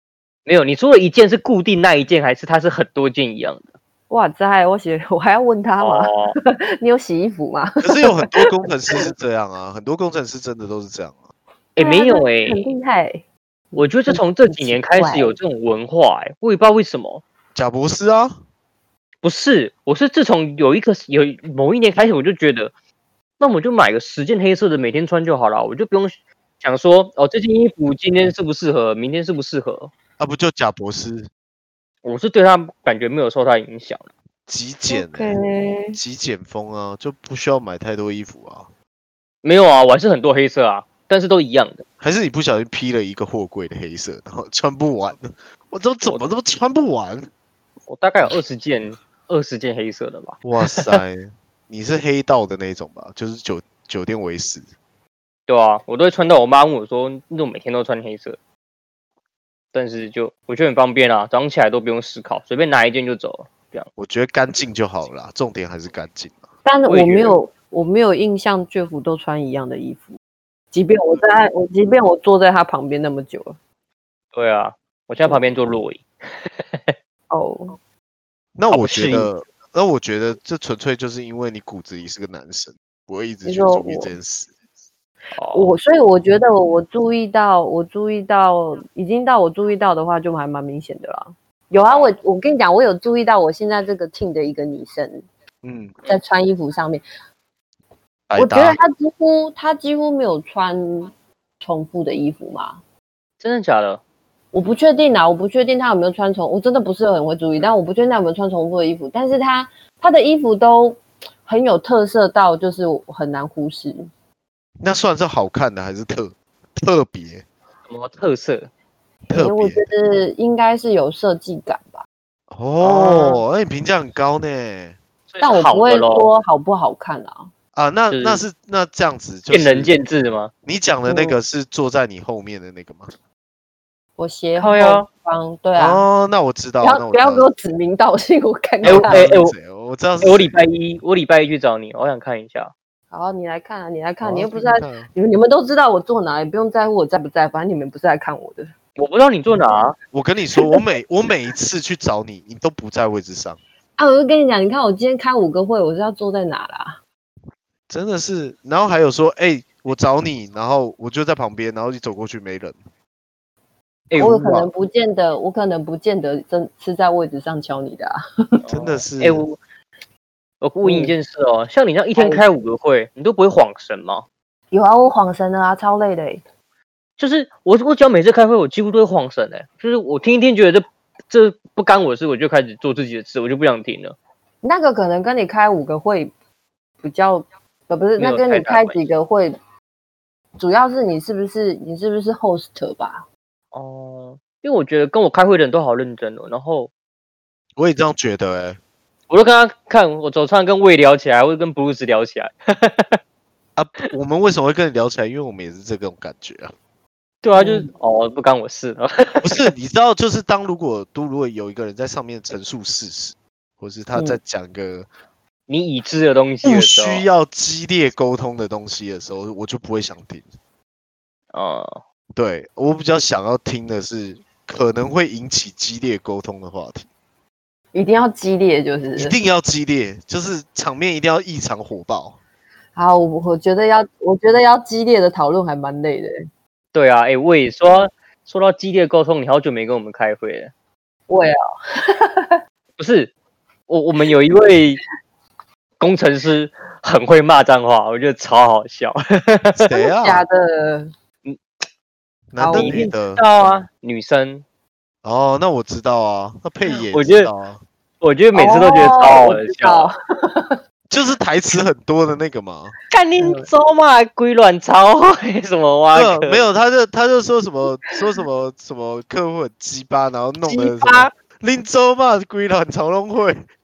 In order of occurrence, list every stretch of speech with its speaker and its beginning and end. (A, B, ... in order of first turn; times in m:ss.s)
0:00.5-0:03.7 A
0:04.1-0:08.4 B
0:05.8-0:06.4 A
0:07.8-0:11.3 C
0:11.8-0:12.7 A
0:11.8-0:15.4 B
0:13.8-0:17.2 A
0:17.6-0:18.4 C
0:19.2-0:22.7 A
0:23.4-0:29.9 A
0:30.2-0:31.3 C
0:32.0-0:34.1 A
0:34.5-0:35.4 C
0:34.9-0:36.0 B
0:35.9-0:38.7 C
0:39.4-0:41.8 A
0:42.0-0:47.3 C
0:47.9-0:51.0 A
0:50.4-0:54.7 C
0:55.5-0:58.4 A
0:59.7-1:03.9 A
1:04.0-1:06.5 C
1:06.6-1:10.2 B
1:06.9-1:07.4 A
1:10.7-1:13.6 B
1:14.3-1:16.9 A
1:17.3-1:17.8 B
1:18.6-1:24.5 C
1:18.7-1:19.3 A
1:23.4-1:24.1 B
1:25.4-1:25.7 A
1:25.5-1:35.2 B
1:31.8-1:32.1 A
1:35.6-1:36.0 C
1:36.1-1:37.0 B
1:38.3-1:38.8 C
1:38.4-1:42.8 B
1:43.4-1:44.0 A
1:44.5-1:54.1 B
1:54.8-1:57.4 C
1:57.9-1:58.7 A
1:59.3-2:02.0 B
1:59.3-1:59.9 C
2:02.5-2:05.0 C
2:02.8-2:03.4 A
2:05.3-2:06.3 A
2:05.4-2:07.5 B
2:07.8-2:10.0 C
2:08.1-2:08.4 A
2:09.5-2:10.5 A
2:10.6-2:13.1 C
2:11.1-2:11.4 B
2:14.2-2:16.1 B
2:14.6-2:15.1 A
2:15.8-2:17.5 C
2:16.8-2:19.3 B
2:18.8-2:20.6 C
2:18.8-2:19.5 A
2:20.2-2:22.7 A
2:23.1-2:28.7 B
2:24.2-2:25.1 C
2:29.0-2:30.0 A
2:30.1-2:33.6 C
2:34.0-2:37.0 B
2:37.9-2:42.8 C
2:44.1-2:44.4 A
2:44.2-2:44.7 C
2:44.2-2:48.2 B
2:48.7-2:49.6 A
2:48.7-2:49.5 C
2:50.6-2:54.2 A
2:50.8-2:51.1 B
2:52.2-2:52.4 B
2:54.7-2:56.4 B
2:57.2-3:04.2 A
3:04.6-3:06.3 B
3:07.0-3:09.6 B
3:08.2-3:09.0 A
3:10.6-3:13.3 B
3:13.7-3:16.9 A
3:17.8-3:18.8 C
3:19.3-3:23.2 A
3:23.8-3:26.7 C
3:27.4-3:29.7 A
3:27.6-3:27.9 B
3:29.4-3:35.1 C
3:35.7-3:37.2 A
3:36.6-3:40.4 C
3:41.5-3:42.0 A
3:42.3-3:47.1 C
3:47.9-3:49.4 B
3:49.2-3:52.4 C
3:53.0-3:56.4 B
3:56.9-4:00.7 A
4:01.3-4:02.6 B
4:03.0-4:03.3 A
4:03.9-4:05.0 A
4:06.0-4:09.9 A
4:09.7-4:10.4 C
4:10.1-4:11.1 B
4:12.5-4:13.4 C
4:12.6-4:13.1 B
4:12.7-4:14.6 A
4:15.2-4:17.8 C
4:17.1-4:17.5 A
4:18.2-4:20.1 A
4:18.5-4:20.8 B
4:21.1-4:23.0 C
4:23.1-4:26.6 A
4:23.4-4:23.7 B
4:26.1-4:33.7 C
4:30.7-4:31.3 A